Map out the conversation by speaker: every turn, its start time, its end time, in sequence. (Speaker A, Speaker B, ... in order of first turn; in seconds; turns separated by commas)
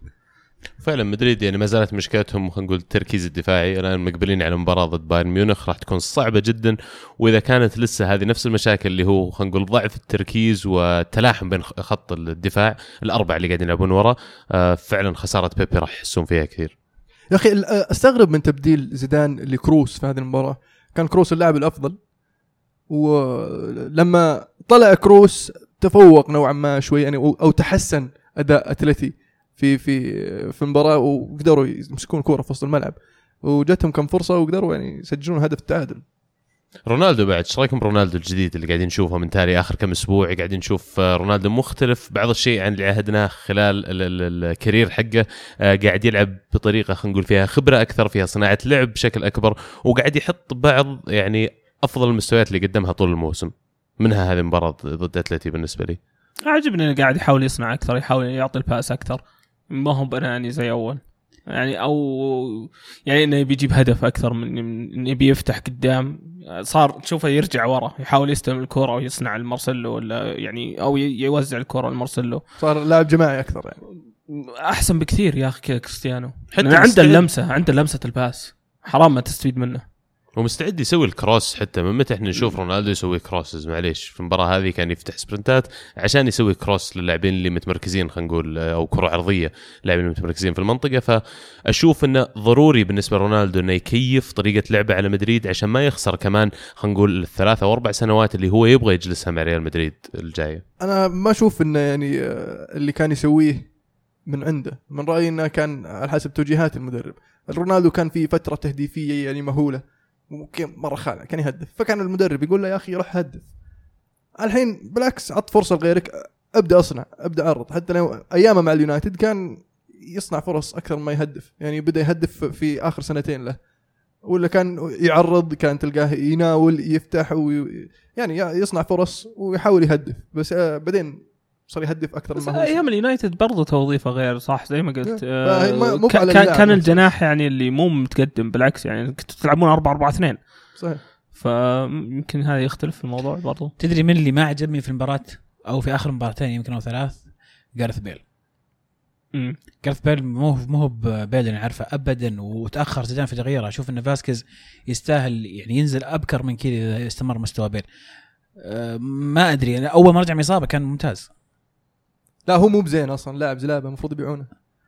Speaker A: 0.8-16.7, Speaker B: 17.3-22.0, Speaker B: 22.9-36.0, Speaker A: 36.8-56.0, Speaker C: 56.5-72.4, Speaker B: 72.6-73.8, Speaker C: 74.3-79.8, Speaker A: 76.5-77.2, Speaker A: 80.3-100.6, Speaker B: 100.8-103.7, Speaker B: 104.2-113.5, Speaker B: 114.3-123.6, Speaker B: 124.2-132.8, Speaker C: 132.4-140.4, Speaker B: 135.0-137.1, Speaker C: 141.3-143.7, Speaker D: 143.8-148.2, Speaker D: 149.8-157.8, Speaker D: 158.6-161.3, Speaker B: 162.4-164.5